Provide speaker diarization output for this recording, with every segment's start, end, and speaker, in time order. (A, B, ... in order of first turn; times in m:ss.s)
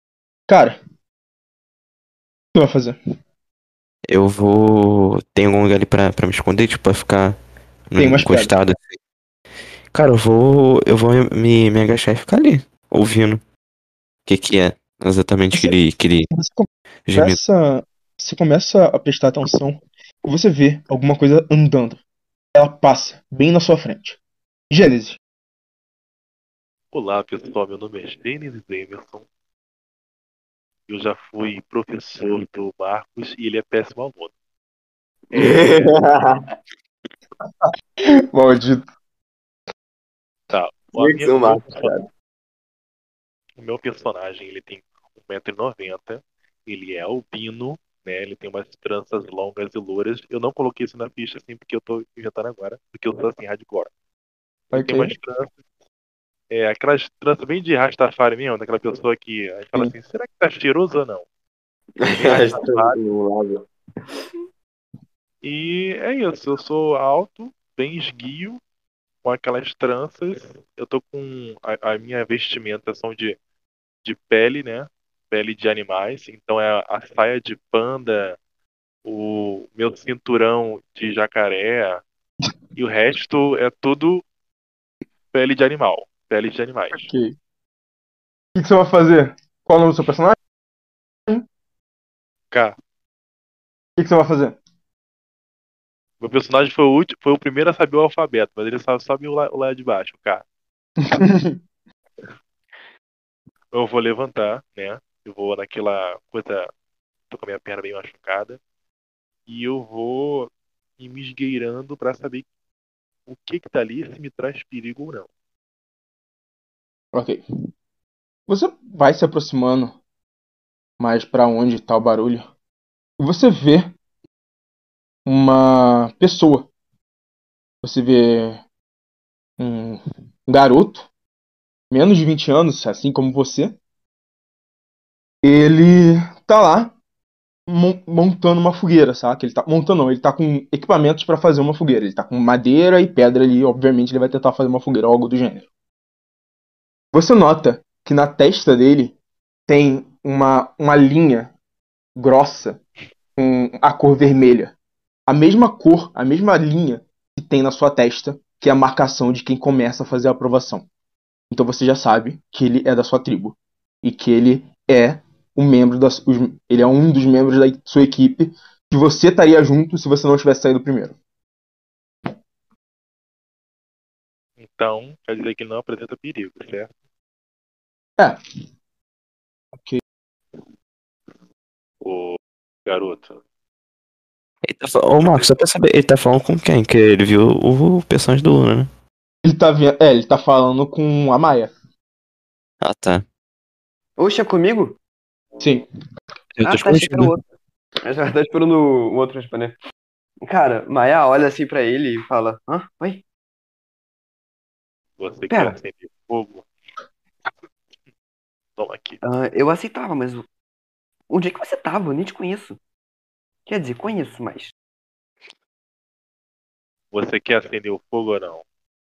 0:00.5-0:00.8 A
0:02.6-0:03.0 A
0:04.1-0:09.0 B
0:08.0-0:08.5 A
0:09.9-0:13.4 B
0:14.3-0:16.3 B
0:15.5-0:15.8 A
0:16.3-0:22.0 A
0:17.1-0:17.4 B
0:22.6-0:24.2 A
0:24.7-0:25.2 A
0:26.9-0:29.2 C
0:30.9-0:34.3 C
0:35.3-0:36.5 D
0:35.3-0:36.0 C
0:38.3-0:38.9 A
0:40.5-0:42.0 C
0:41.0-0:42.1 D
0:43.6-0:53.9 C
0:54.7-0:55.2 A
0:54.7-0:55.5 C
0:56.5-1:01.2 C
1:02.0-1:04.3 D
1:02.1-1:03.0 C
1:05.4-1:08.6 C
1:09.2-1:13.4 C
1:14.0-1:18.4 C
1:19.0-1:22.0 C
1:22.8-1:24.2 C
1:25.3-1:27.1 C
1:26.9-1:27.4 A
1:28.6-1:30.4 A
1:34.0-1:34.6 A
1:36.2-1:40.4 C
1:41.0-1:41.6 A
1:43.7-1:46.7 C
1:47.3-1:48.6 C
1:49.5-1:52.5 C
1:53.3-1:55.3 C
1:57.1-1:57.4 A
1:58.5-2:00.0 A
2:01.0-2:02.5 A
2:03.2-2:03.9 A
2:05.3-2:06.7 A
2:07.8-2:08.6 A
2:09.6-2:11.1 A
2:11.9-2:13.8 A
2:15.4-2:17.0 A
2:17.7-2:25.7 A
2:27.1-2:29.2 A
2:29.7-2:31.5 A
2:32.2-2:32.8 A
2:33.4-2:34.8 A
2:35.3-2:40.9 A
2:41.5-2:51.2 A
2:54.6-2:56.9 C
3:02.0-3:03.4 C
3:04.6-3:08.9 B
3:09.4-3:11.7 A
3:12.8-3:13.2 B
3:14.2-3:15.0 D
3:15.6-3:15.8 A
3:16.6-3:17.3 B
3:16.6-3:17.4 D
3:18.0-3:19.8 D
3:20.4-3:23.2 D
3:25.2-3:26.7 C
3:25.5-3:25.8 D
3:28.8-3:29.2 C
3:29.2-3:30.5 D
3:31.3-3:32.8 D
3:33.7-3:34.7 D
3:37.1-3:38.6 C